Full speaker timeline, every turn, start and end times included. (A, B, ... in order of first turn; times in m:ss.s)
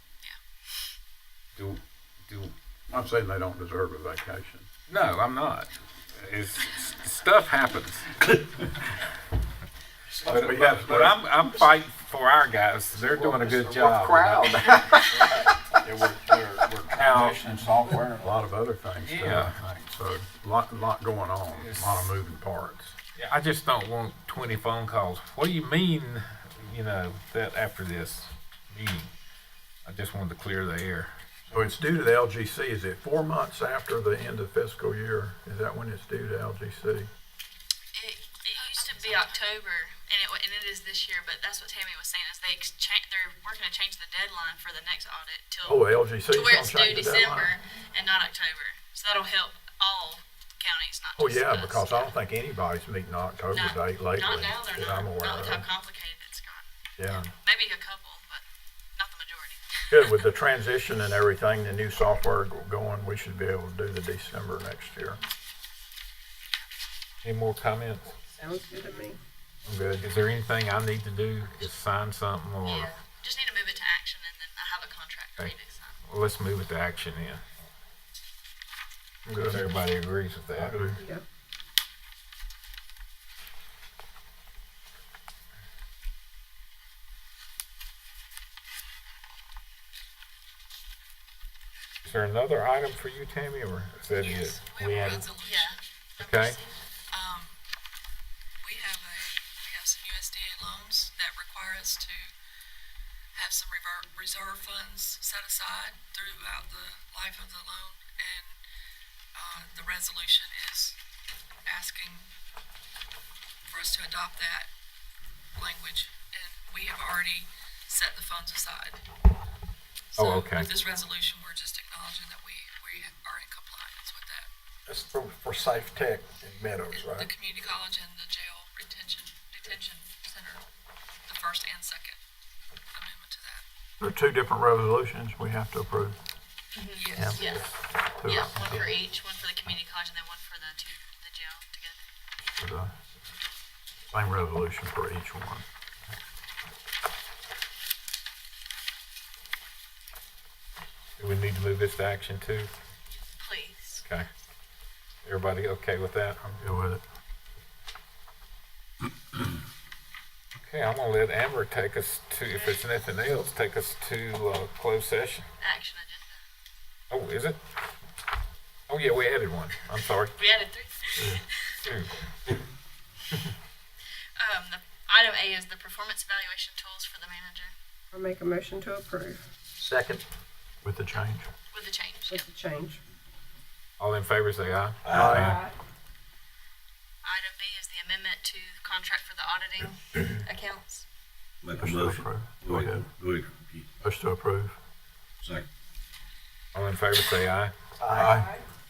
0:01.5-0:02.5 A
0:02.9-0:04.7 B
0:04.9-0:08.3 A
0:10.1-0:11.2 B
0:10.3-0:14.7 A
0:13.2-0:14.6 C
0:13.6-0:23.0 B
0:16.9-0:17.4 A
0:19.0-0:19.5 A
0:21.5-0:22.1 A
0:23.2-0:29.1 A
0:29.8-0:31.1 A
0:31.5-0:37.1 B
0:37.9-0:52.1 D
0:38.5-0:39.4 E
0:45.6-0:47.5 B
0:51.2-0:55.6 B
0:53.5-0:58.4 D
0:57.0-0:57.3 B
0:59.0-0:59.8 D
0:59.9-1:05.2 B
1:07.2-1:08.1 A
1:08.3-1:09.2 F
1:09.6-1:10.0 B
1:10.0-1:12.9 A
1:12.6-1:16.0 D
1:16.0-1:17.4 A
1:19.2-1:19.6 B
1:19.4-1:21.0 A
1:20.6-1:21.0 B
1:21.0-1:21.2 F
1:32.0-1:35.2 A
1:34.2-1:35.8 E
1:35.4-1:36.8 D
1:36.2-1:36.6 A
1:37.1-1:37.6 E
1:38.6-1:42.3 E
1:43.3-1:48.6 E
1:49.3-1:51.0 E
1:51.6-1:52.3 E
1:53.7-1:54.7 E
1:55.5-1:59.0 E
2:00.1-2:04.5 E
2:00.2-2:00.7 A
2:04.9-2:07.3 C
2:06.9-2:10.6 E
2:11.3-2:12.2 E
2:12.9-2:13.6 E
2:14.0-2:16.2 B
2:16.7-2:17.7 D
2:17.0-2:17.6 E
2:18.0-2:18.9 B
2:18.2-2:22.0 D
2:22.4-2:22.9 B
2:24.1-2:25.6 B
2:31.2-2:32.7 A
2:33.4-2:34.0 D
2:35.2-2:36.4 A
2:36.4-2:37.0 B
2:40.6-2:45.4 A
2:45.6-2:46.4 D
2:47.1-2:47.6 A
2:48.9-2:50.3 A
2:50.4-2:51.7 D
2:51.2-2:51.4 B
2:51.8-2:52.1 A
2:54.4-2:57.7 D
2:58.1-2:59.4 F
2:59.8-3:00.2 C
3:00.8-3:01.5 B
3:01.7-3:02.5 D
3:02.3-3:03.0 F
3:04.0-3:05.6 A
3:05.0-3:05.4 G
3:05.1-3:05.6 B
3:05.4-3:05.7 F
3:07.2-3:11.0 D
3:11.6-3:13.8 G
3:11.8-3:13.1 B
3:14.0-3:14.8 B
3:15.4-3:15.7 G
3:16.7-3:17.7 A
3:18.0-3:18.4 C
3:18.0-3:18.5 B